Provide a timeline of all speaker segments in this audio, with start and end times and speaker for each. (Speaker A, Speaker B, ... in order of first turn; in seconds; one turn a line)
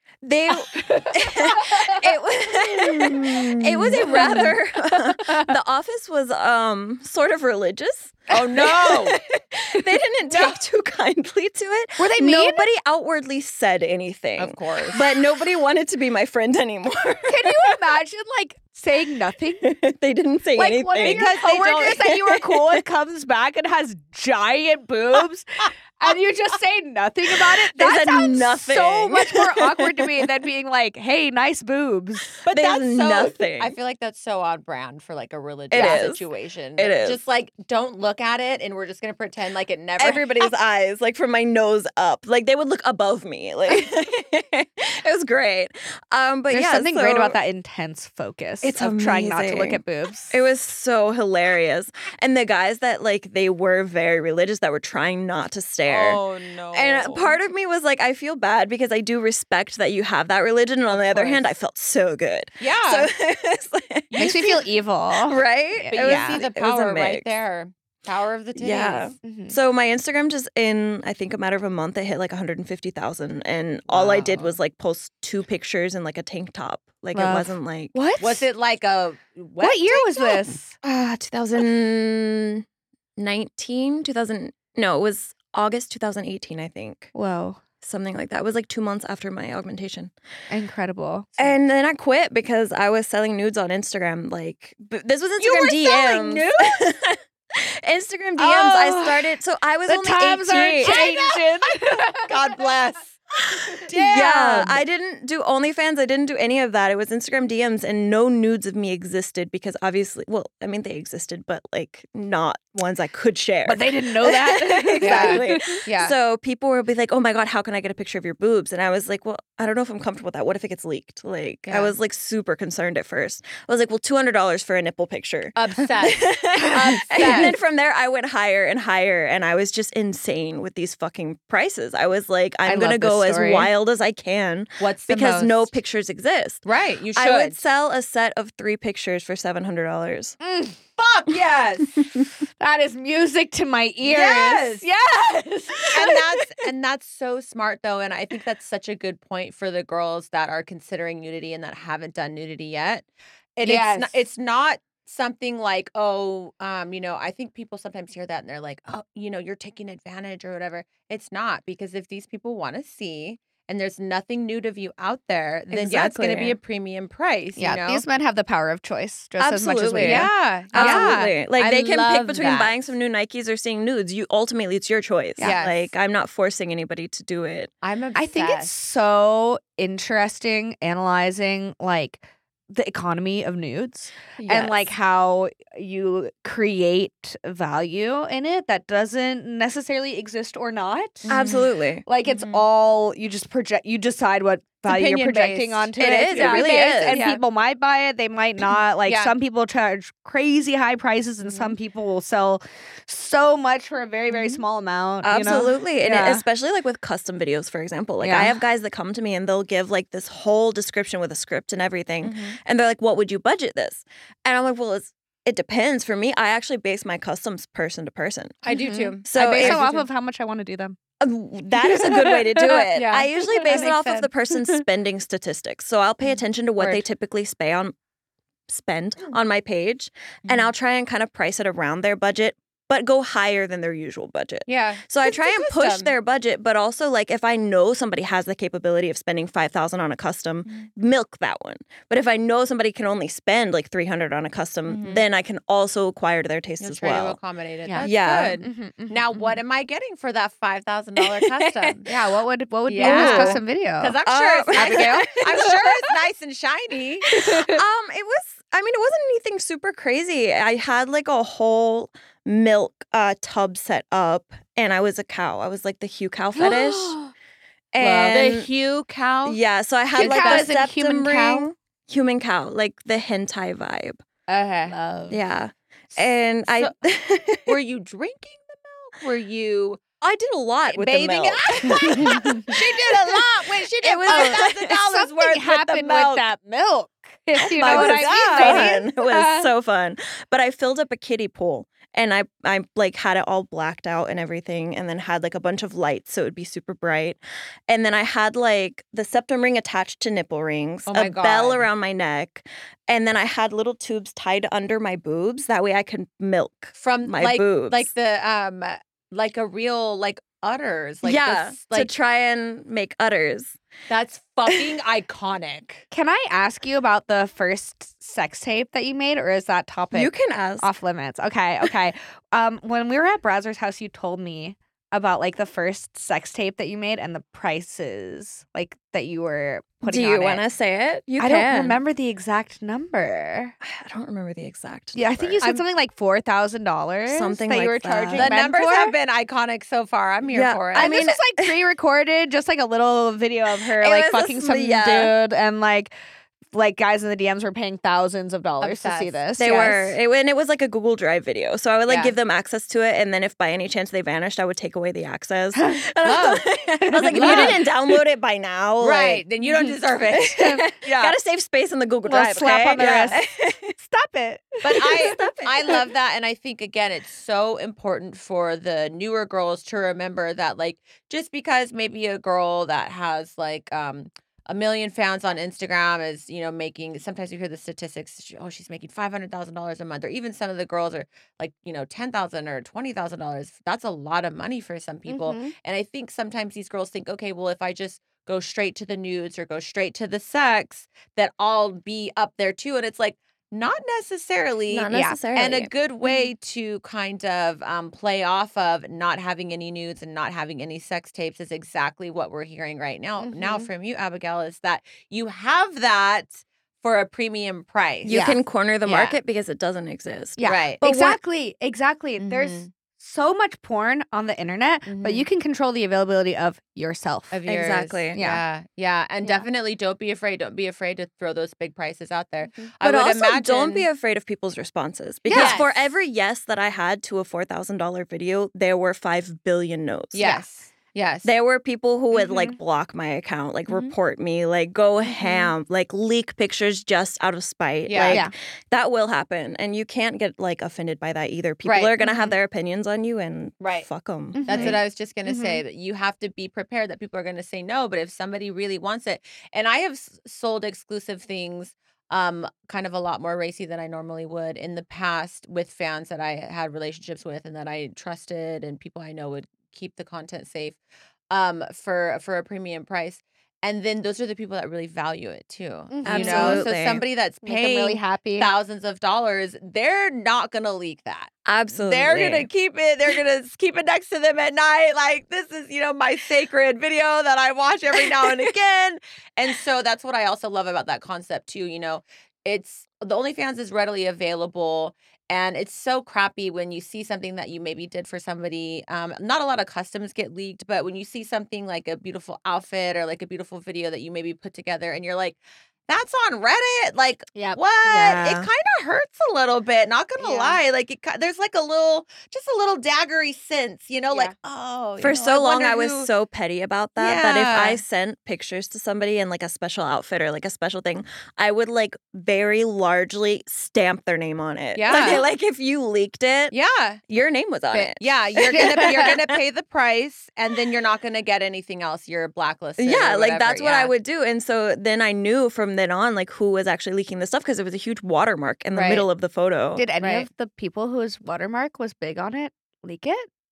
Speaker A: 0.2-17.8
Speaker B: 0.7-2.0
Speaker B: 2.8-5.5
Speaker C: 3.9-4.4
Speaker C: 8.3-9.2
Speaker C: 10.3-10.6
Speaker B: 12.0-12.7
Speaker C: 14.4-15.1
Speaker B: 17.3-19.8
Speaker A: 19.6-22.8
Speaker B: 20.6-32.4
Speaker C: 21.0-22.1
Speaker A: 27.7-30.1
Speaker C: 32.4-40.5
Speaker A: 32.5-33.7
Speaker A: 35.7-36.2
Speaker B: 35.7-36.0
Speaker A: 36.8-37.2
Speaker A: 40.0-47.4
Speaker B: 46.5-50.4
Speaker A: 48.6-56.2
Speaker C: 55.9-57.4
Speaker A: 56.7-64.7
Speaker C: 60.9-61.5
Speaker C: 62.6-63.1
Speaker C: 64.1-64.5
Speaker B: 64.2-66.4
Speaker A: 65.2-67.3
Speaker C: 65.9-69.1
Speaker A: 68.6-78.0
Speaker B: 69.2-69.6
Speaker C: 73.9-74.6
Speaker B: 77.1-78.5
Speaker C: 78.2-80.5
Speaker B: 79.6-80.7
Speaker A: 80.8-82.7
Speaker A: 83.2-87.1
Speaker B: 87.1-87.6
Speaker A: 87.8-90.1
Speaker B: 90.5-91.3
Speaker A: 91.4-101.1
Speaker C: 95.4-96.8
Speaker B: 98.4-102.5
Speaker C: 100.8-101.4
Speaker C: 102.2-103.2
Speaker A: 103.8-136.6
Speaker C: 103.8-104.8
Speaker B: 113.7-115.8
Speaker C: 115.0-116.2
Speaker C: 121.7-121.9
Speaker C: 125.5-127.5
Speaker B: 132.7-133.7
Speaker C: 134.8-135.7
Speaker C: 136.7-137.6
Speaker A: 137.2-140.4
Speaker B: 140.4-140.8
Speaker C: 141.0-142.1
Speaker B: 142.6-146.2
Speaker C: 144.0-144.9
Speaker C: 145.9-168.0
Speaker B: 153.6-154.1
Speaker A: 165.7-166.6
Speaker B: 167.6-171.2
Speaker A: 169.4-177.7
Speaker C: 170.0-172.8
Speaker B: 175.4-175.7
Speaker C: 175.4-175.9
Speaker C: 177.8-178.8
Speaker B: 178.2-191.4
Speaker A: 184.4-184.9
Speaker C: 191.2-191.7
Speaker A: 191.3-192.0
Speaker B: 192.1-206.4
Speaker C: 192.2-192.6
Speaker C: 194.8-197.4
Speaker A: 196.0-197.2
Speaker C: 199.1-199.3
Speaker C: 201.4-201.7
Speaker A: 205.2-218.7
Speaker B: 208.2-208.6
Speaker C: 212.2-212.6
Speaker C: 218.6-220.1
Speaker B: 218.7-221.0
Speaker A: 219.2-219.8
Speaker A: 221.2-227.9
Speaker B: 221.8-222.8
Speaker C: 222.7-224.3
Speaker C: 226.8-227.0
Speaker A: 228.7-247.4
Speaker C: 230.4-230.7
Speaker C: 234.7-236.1
Speaker C: 244.9-245.2
Speaker C: 246.8-252.1
Speaker A: 248.0-248.7
Speaker B: 248.6-249.6
Speaker A: 251.5-251.9
Speaker B: 252.1-254.2
Speaker C: 252.9-257.3
Speaker A: 253.0-253.6
Speaker A: 254.3-255.8
Speaker B: 254.7-255.7
Speaker B: 257.3-257.8
Speaker A: 257.6-267.2
Speaker B: 266.6-267.3
Speaker A: 267.9-268.7
Speaker C: 268.0-269.6
Speaker A: 269.5-274.2
Speaker C: 270.1-271.1
Speaker B: 270.2-271.7
Speaker C: 274.5-275.4
Speaker A: 275.3-277.8
Speaker C: 276.2-276.9
Speaker C: 277.7-280.0
Speaker A: 280.2-283.4
Speaker C: 280.9-286.4
Speaker B: 281.9-282.7
Speaker A: 284.0-285.1
Speaker B: 284.3-289.7
Speaker A: 287.6-308.1
Speaker C: 287.6-289.0
Speaker C: 301.1-301.9
Speaker C: 307.0-312.1
Speaker A: 311.2-313.8
Speaker C: 314.1-316.1
Speaker B: 316.1-330.6
Speaker A: 320.1-320.9
Speaker A: 330.0-332.0
Speaker B: 331.4-333.8
Speaker A: 333.8-335.6
Speaker B: 335.1-339.1
Speaker A: 337.3-338.5
Speaker C: 338.3-341.3
Speaker A: 340.5-341.8
Speaker B: 340.9-346.1
Speaker A: 344.0-345.3
Speaker B: 346.7-350.1
Speaker C: 348.8-349.4
Speaker A: 349.6-359.4
Speaker C: 352.1-352.3
Speaker B: 355.8-357.8
Speaker C: 356.2-356.6
Speaker C: 357.3-357.9
Speaker C: 359.0-360.9
Speaker A: 360.3-363.9
Speaker B: 361.0-361.3
Speaker B: 362.3-363.4
Speaker B: 363.9-365.9
Speaker C: 364.8-408.5
Speaker A: 365.2-366.0
Speaker B: 385.3-385.7
Speaker A: 394.9-395.9
Speaker B: 395.1-395.4
Speaker B: 403.4-403.9
Speaker A: 408.2-411.4
Speaker B: 408.3-408.6
Speaker C: 409.1-409.4
Speaker B: 410.6-417.6
Speaker C: 410.6-411.0
Speaker C: 412.4-412.9
Speaker C: 415.1-415.5
Speaker C: 417.5-424.1
Speaker A: 417.7-418.4
Speaker B: 418.3-418.6
Speaker A: 423.0-430.5
Speaker B: 425.5-425.8
Speaker C: 425.5-426.1
Speaker C: 430.3-431.5
Speaker A: 431.4-445.0
Speaker B: 432.3-432.8
Speaker C: 433.9-434.1
Speaker C: 438.1-438.4
Speaker B: 438.3-438.5
Speaker C: 441.8-442.1
Speaker B: 442.2-442.5
Speaker C: 443.8-444.1
Speaker B: 444.5-445.8
Speaker C: 444.7-461.0
Speaker C: 461.5-506.3
Speaker B: 466.1-466.9
Speaker A: 466.2-467.2
Speaker B: 467.6-468.7
Speaker A: 471.7-472.7
Speaker B: 497.5-497.8
Speaker A: 498.1-498.7
Speaker B: 500.4-500.8
Speaker A: 505.2-516.8
Speaker C: 507.2-508.0
Speaker C: 515.0-515.5
Speaker C: 516.7-517.2
Speaker A: 517.3-519.6
Speaker C: 518.1-524.1
Speaker B: 518.7-519.3
Speaker A: 523.0-530.0
Speaker C: 528.9-529.3
Speaker B: 530.0-533.5
Speaker C: 530.2-530.5